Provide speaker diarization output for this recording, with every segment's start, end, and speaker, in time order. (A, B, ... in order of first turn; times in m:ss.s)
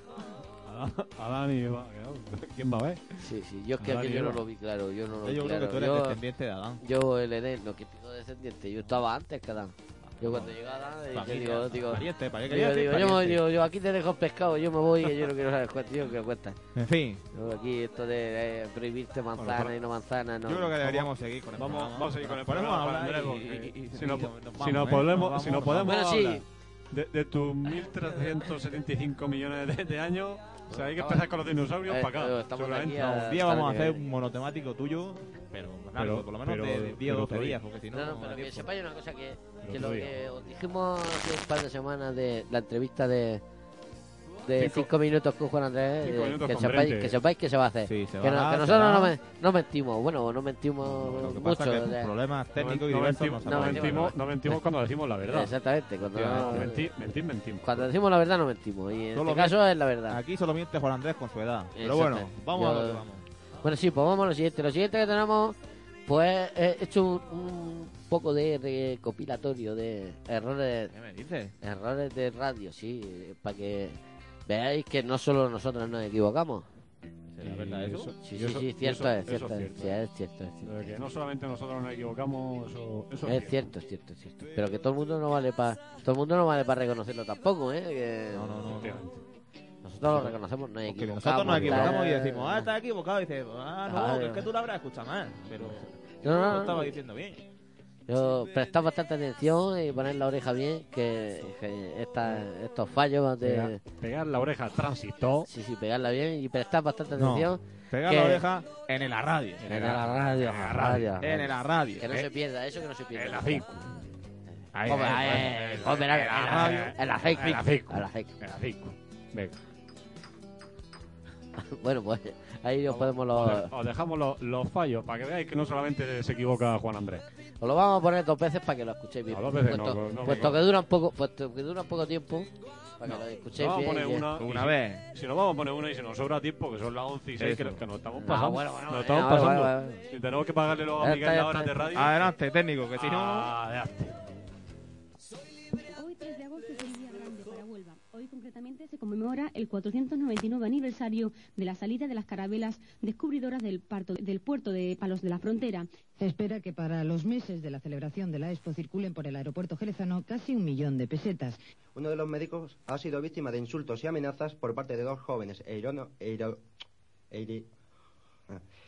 0:00.6-0:03.0 A
0:03.2-0:06.2 B
0:03.8-0:04.4 A
0:05.2-0:06.8 C
0:06.8-0:16.6 B
0:10.1-0:10.5 C
0:11.1-0:13.4 C
0:16.8-0:17.2 C
0:17.3-0:21.0 B
0:19.4-0:19.7 A
0:20.4-0:26.0 C
0:21.6-0:33.3 A
0:25.8-0:26.4 B
0:30.7-0:31.3 B
0:31.9-0:34.1 B
0:33.2-0:38.7 C
0:35.9-0:37.6 A
0:37.9-0:43.4 B
0:39.6-0:40.2 A
0:44.4-0:52.1 B
0:44.6-0:44.9 A
0:46.0-0:47.2 A
0:47.9-0:49.1 C
0:50.8-0:54.1 C
0:52.6-0:55.5 A
0:53.4-0:54.6 B
0:55.3-0:56.9 B
0:56.1-0:56.7 C
0:56.2-0:57.9 A
0:57.6-1:00.2 B
0:59.1-1:03.2 C
1:01.7-1:03.0 B
1:03.6-1:05.6 B
1:06.1-1:10.9 B
1:10.9-1:11.5 C
1:11.6-1:16.7 B
1:17.4-1:18.1 C
1:17.4-1:20.0 A
1:18.2-1:20.9 B
1:20.6-1:23.7 A
1:23.2-1:28.8 B
1:28.3-1:29.0 C
1:28.7-1:29.2 A
1:29.8-1:32.7 B
1:30.1-1:37.4 C
1:31.5-1:32.0 A
1:33.9-1:34.4 B
1:35.6-1:36.9 B
1:38.1-1:43.8 B
1:43.4-1:45.5 A
1:45.5-1:48.4 B
1:47.2-1:49.9 C
1:49.6-1:51.4 A
1:49.7-1:51.4 B
1:51.2-1:52.2 C
1:52.0-1:53.6 B
1:53.1-1:53.9 A
1:54.8-1:55.5 C
1:54.8-1:58.4 B
1:54.8-1:59.6 A
1:56.2-1:56.9 C
2:01.6-2:03.7 B
2:02.9-2:07.2 A
2:07.6-2:14.2 B
2:09.3-2:10.6 A
2:13.5-2:22.3 A
2:14.4-2:15.0 C
2:17.4-2:17.8 C
2:18.2-2:20.0 B
2:21.0-2:21.8 B
2:21.9-2:23.5 C
2:23.0-2:24.2 A
2:25.9-2:35.9 D
2:36.2-2:41.6 E
2:41.9-2:46.6 F
2:47.3-2:47.7 F